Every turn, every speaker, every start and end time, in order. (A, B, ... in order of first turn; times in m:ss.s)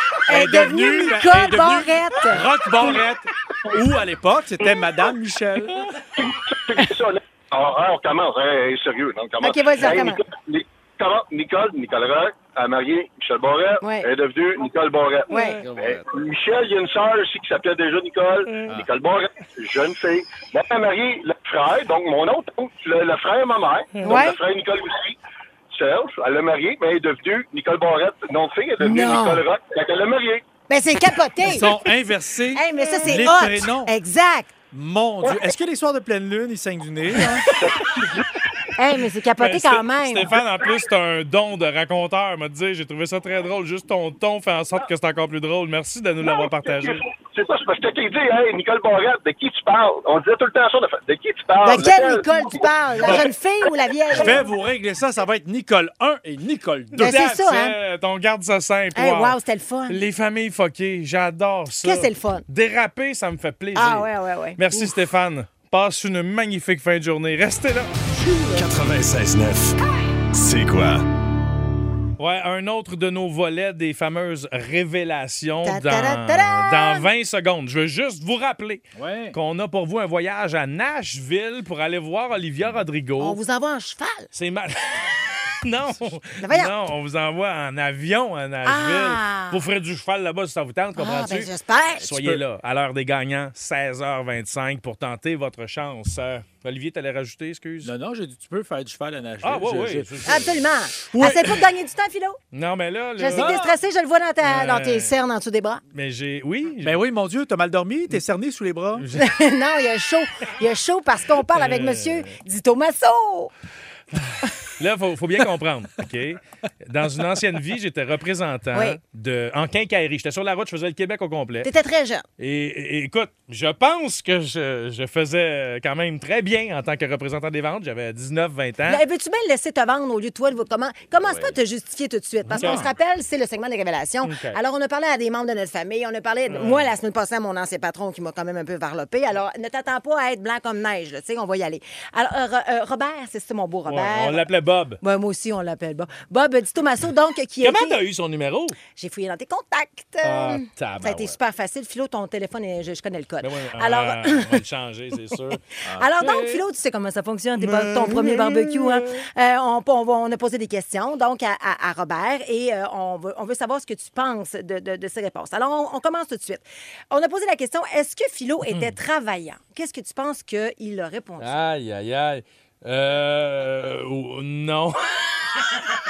0:00.3-0:02.5 A
0:00.3-0:05.9 B
0:06.2-0:25.2 C
0:09.4-0:10.2 A
0:13.8-0:14.1 A
0:15.3-0:15.6 A
0:15.6-0:16.2 B
0:24.0-0:24.2 D
0:24.0-0:24.4 A
0:25.7-0:30.4 C
0:28.8-0:29.4 A
0:30.7-0:31.8 A
0:31.4-0:33.9 B
0:32.5-0:34.5 A
0:34.7-0:37.5 B
0:37.1-0:37.4 A
0:37.6-0:38.3 C
0:38.8-0:40.4 A
0:39.4-0:47.0 D
0:46.2-0:52.6 C
0:51.6-0:54.4 A
0:54.1-0:57.1 B
0:56.9-0:59.4 D
0:57.0-0:57.8 A
0:59.0-1:00.0 A
0:59.9-1:07.9 D
1:01.8-1:02.4 A
1:03.8-1:04.9 A
1:08.1-1:08.7 A
1:08.5-1:09.8 E
1:10.3-1:11.0 E
1:12.2-1:23.4 D
1:15.6-1:17.1 A
1:19.0-1:19.4 B
1:23.2-1:24.3 A
1:24.3-1:37.9 D
1:26.4-1:26.7 A
1:28.6-1:29.6 A
1:31.0-1:32.3 A
1:37.8-1:40.5 B
1:39.4-1:40.6 D
1:40.2-1:42.4 A
1:41.0-1:41.6 B
1:42.5-1:43.6 D
1:43.2-1:45.8 A
1:43.3-1:43.7 B
1:44.4-1:45.1 D
1:45.9-1:47.0 D
1:46.8-1:49.0 B
1:49.0-1:49.3 D
1:49.2-1:53.5 A
1:51.5-1:52.3 D
1:54.1-2:01.7 D
1:58.7-1:59.0 A
2:01.6-2:02.2 A
2:02.4-2:09.0 D
2:08.9-2:24.5 A
2:11.2-2:11.5 B
2:12.5-2:12.9 D
2:12.6-2:12.9 B
2:14.2-2:14.6 D
2:16.5-2:16.8 D
2:23.9-2:25.0 D
2:25.0-2:28.0 A
2:27.6-2:28.8 D
2:28.9-2:34.6 A
2:30.2-2:31.4 D
2:33.4-2:35.6 D
2:35.9-2:36.1 B
2:35.9-2:51.5 A
2:36.2-2:36.6 D
2:37.6-2:39.2 D
2:51.4-2:55.0 D